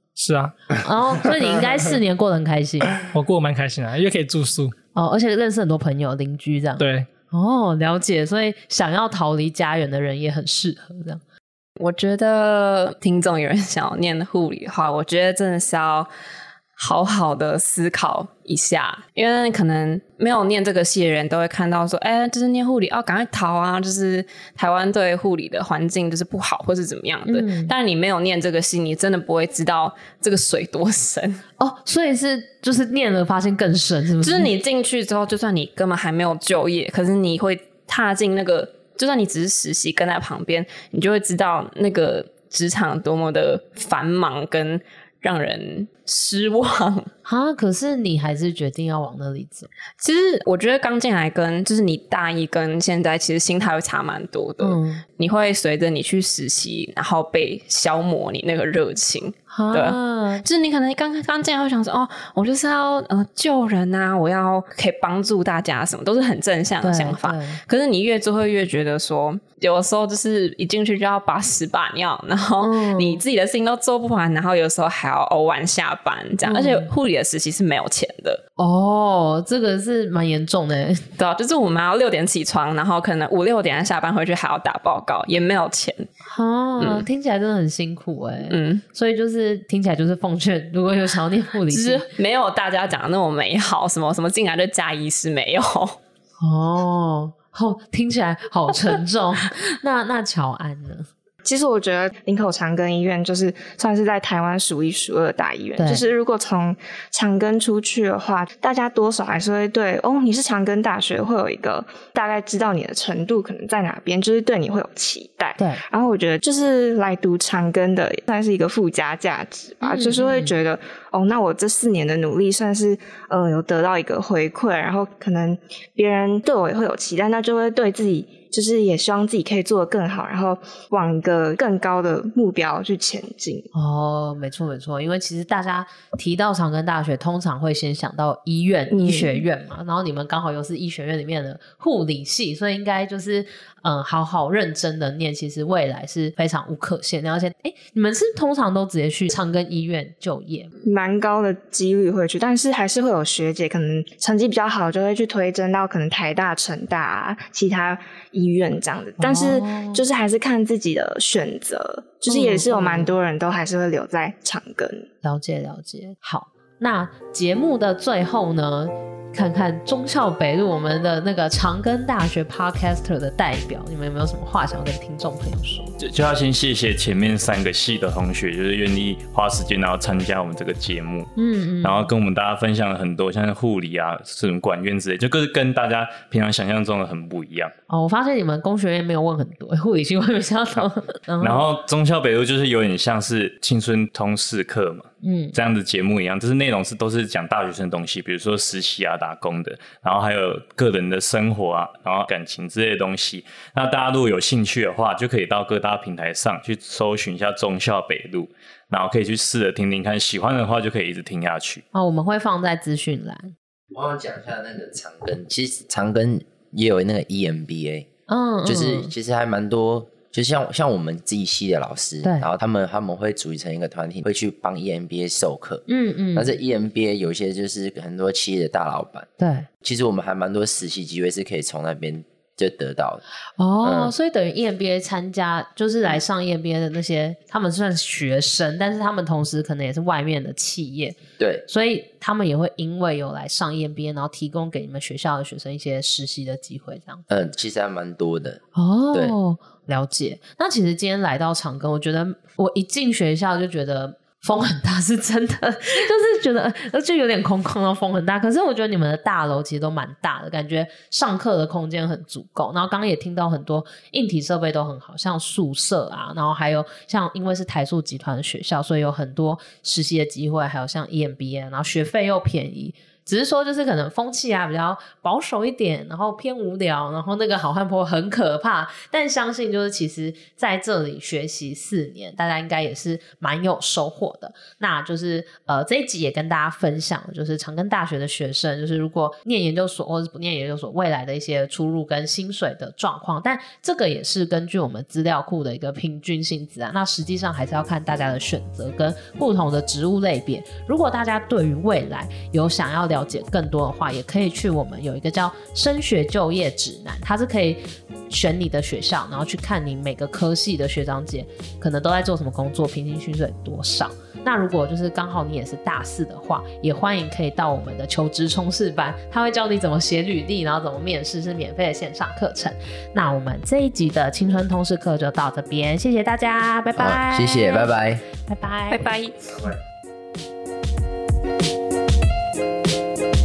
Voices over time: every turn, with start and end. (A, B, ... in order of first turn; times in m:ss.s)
0:00.2-0:00.6 A
0:00.8-0:03.0 B
0:03.1-0:04.7 A
0:04.9-0:11.2 B
0:06.8-0:07.1 A
0:11.8-0:16.1 C
0:16.8-0:31.4 C
0:27.3-0:27.7 B
0:31.6-0:34.5 B
0:34.2-0:47.1 C
0:47.2-0:49.7 B
0:50.0-1:18.4 C
0:54.6-0:55.0 B
0:59.5-1:00.4 B
1:06.8-1:07.6 B
1:12.6-1:13.2 B
1:16.4-1:16.9 B
1:18.6-1:21.0 B
1:21.2-1:26.1 C
1:26.3-1:32.0 B
1:26.8-1:27.0 C
1:28.5-1:28.8 C
1:31.7-1:36.0 C
1:36.4-1:41.1 B
1:41.4-2:13.7 D
1:45.8-1:46.0 B
1:59.8-2:00.6 B
2:13.7-2:30.7 B
2:18.9-2:19.4 D
2:30.8-2:45.1 D
2:39.2-2:40.0 B
2:42.3-2:43.1 B
2:45.2-2:55.9 B
2:56.0-3:01.3 E
3:01.4-3:02.1 B
3:01.8-3:07.7 E
3:07.9-3:11.7 B
3:11.4-3:31.8 E
3:15.2-3:15.6 B
3:31.9-3:33.5 B
3:33.9-3:38.1 F
3:38.3-3:39.1 B
3:38.6-3:45.8 F
3:45.9-3:46.5 B
3:46.3-3:49.3 F
3:49.4-3:49.7 B
3:49.8-3:53.2 F
3:53.6-4:07.2 B
3:53.8-3:54.1 F
4:01.4-4:01.6 F
4:07.3-4:09.3 F
4:08.7-5:27.9 B
5:27.0-5:28.2 F
5:28.4-5:29.0 B
5:28.9-5:29.6 C